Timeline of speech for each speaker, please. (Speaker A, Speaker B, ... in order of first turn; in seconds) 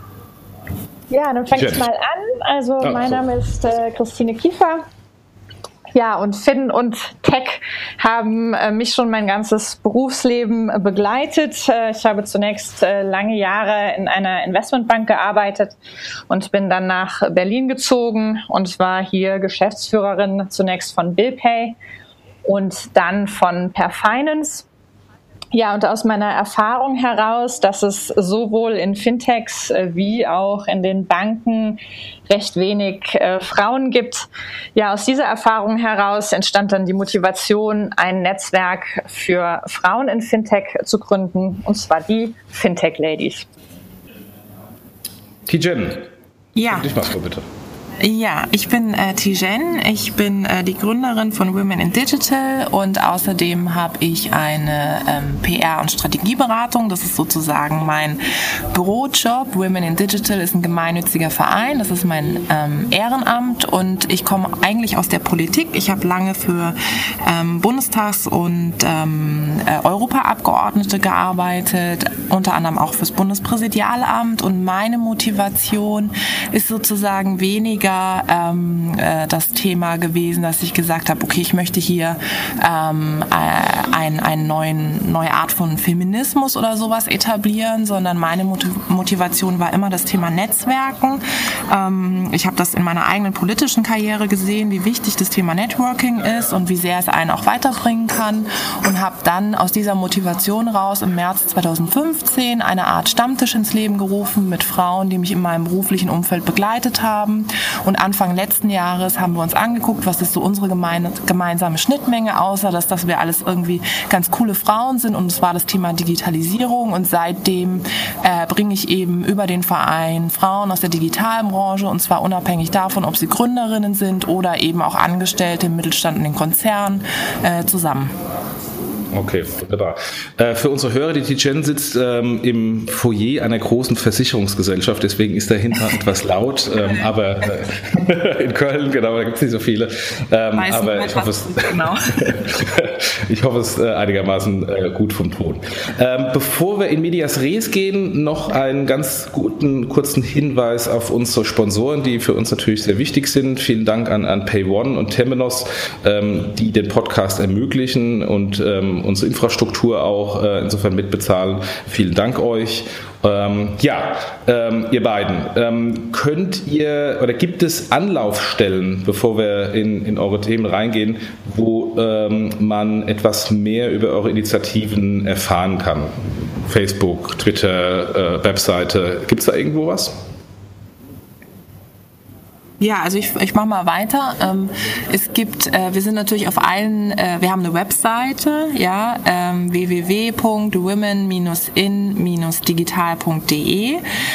Speaker A: 1.1-4.8, 5.9-15.8, 16.3-21.8, 22.4-24.6, 25.5-43.5
Speaker B: 1.5-1.9, 2.8-3.2, 45.5-46.1, 46.6-47.4, 129.1-176.1, 176.6-180.1
Speaker C: 46.5-46.9, 48.0-58.2, 58.7-128.1, 140.6-142.3, 182.8-194.0